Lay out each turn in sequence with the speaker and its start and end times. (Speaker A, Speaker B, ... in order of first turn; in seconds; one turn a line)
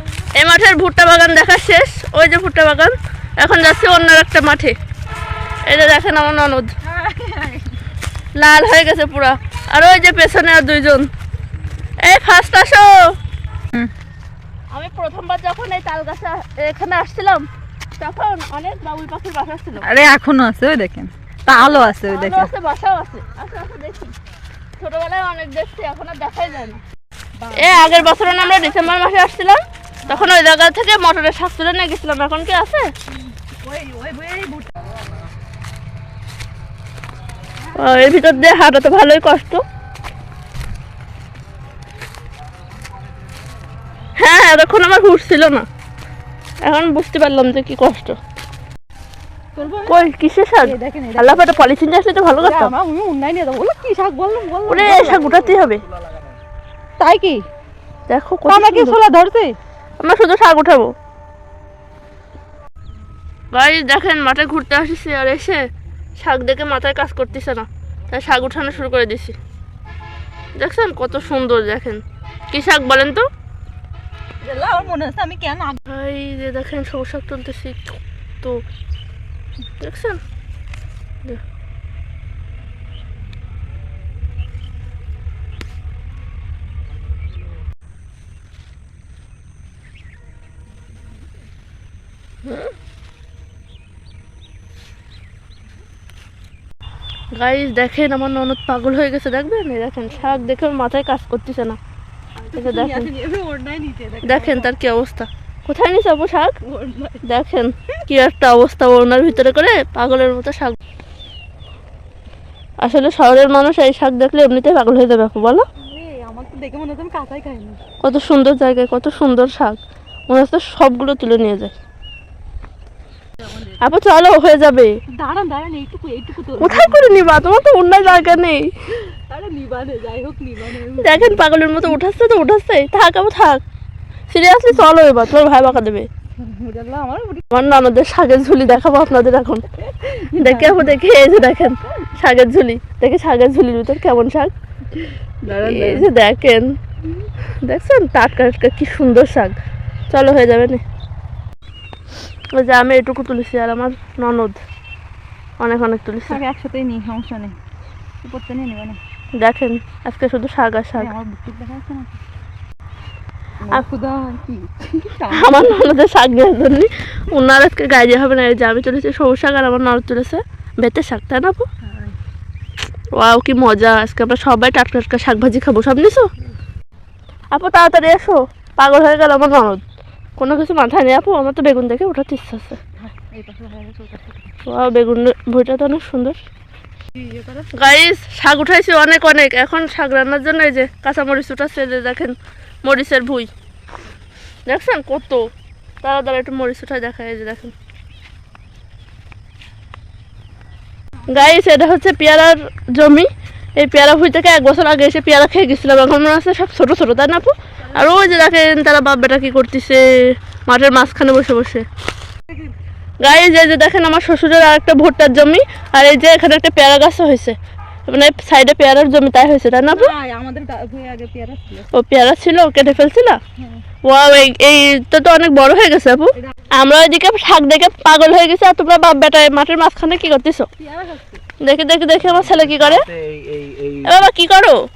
Speaker A: 0.4-4.7
Speaker A: 5.7-6.7
Speaker B: 6.8-7.8
Speaker A: 8.3-11.1
Speaker A: 12.0-13.1
Speaker A: 14.7-17.5
Speaker A: 18.0-19.9
Speaker B: 19.8-22.5
Speaker A: 22.0-24.1
Speaker A: 24.8-26.8
Speaker B: 27.4-28.9
Speaker A: 27.6-32.9
Speaker B: 30.1-30.3
Speaker B: 33.2-34.7
Speaker B: 37.6-38.5
Speaker A: 37.8-39.6
Speaker A: 44.1-45.6
Speaker A: 46.6-48.2
Speaker B: 49.5-50.0
Speaker A: 49.9-52.7
Speaker B: 50.6-51.5
Speaker B: 52.3-55.4
Speaker A: 54.7-55.8
Speaker B: 57.0-57.5
Speaker A: 58.1-59.0
Speaker B: 58.5-59.6
Speaker A: 60.0-60.9
Speaker A: 63.5-65.7
Speaker A: 66.2-69.3
Speaker A: 70.5-73.3
Speaker B: 74.4-75.8
Speaker A: 75.9-78.6
Speaker A: 79.8-80.2
Speaker A: 92.4-92.7
Speaker A: 97.3-101.8
Speaker B: 102.4-104.7
Speaker A: 102.5-103.1
Speaker A: 104.2-106.5
Speaker B: 106.6-107.2
Speaker A: 107.2-110.8
Speaker A: 112.8-115.6
Speaker B: 115.8-117.8
Speaker A: 118.0-121.7
Speaker B: 123.4-123.9
Speaker A: 123.8-124.9
Speaker B: 125.1-127.4
Speaker A: 126.6-128.7
Speaker B: 129.1-131.4
Speaker A: 131.0-133.6
Speaker A: 134.3-136.1
Speaker B: 136.4-137.4
Speaker A: 137.5-139.6
Speaker B: 139.9-141.0
Speaker A: 140.4-144.5
Speaker B: 145.0-146.1
Speaker A: 145.6-146.7
Speaker A: 147.6-149.5
Speaker A: 150.1-150.8
Speaker A: 152.5-154.6
Speaker A: 155.6-156.4
Speaker B: 156.3-157.6
Speaker B: 158.2-159.0
Speaker A: 159.3-161.1
Speaker B: 160.9-162.2
Speaker B: 163.6-165.9
Speaker A: 165.3-171.7
Speaker B: 171.8-172.2
Speaker A: 173.1-176.3
Speaker A: 177.5-179.8
Speaker A: 180.4-182.8
Speaker B: 183.0-184.5
Speaker A: 184.7-186.3
Speaker B: 187.2-187.7
Speaker A: 187.7-193.5
Speaker A: 194.7-195.5
Speaker A: 196.0-197.7
Speaker A: 201.3-211.8
Speaker B: 207.8-208.6
Speaker A: 213.2-217.6
Speaker A: 218.1-220.1
Speaker B: 219.9-221.9
Speaker A: 221.9-223.4
Speaker A: 224.0-230.7
Speaker B: 230.8-231.4
Speaker A: 231.6-233.1
Speaker C: 232.2-234.3
Speaker A: 234.1-234.8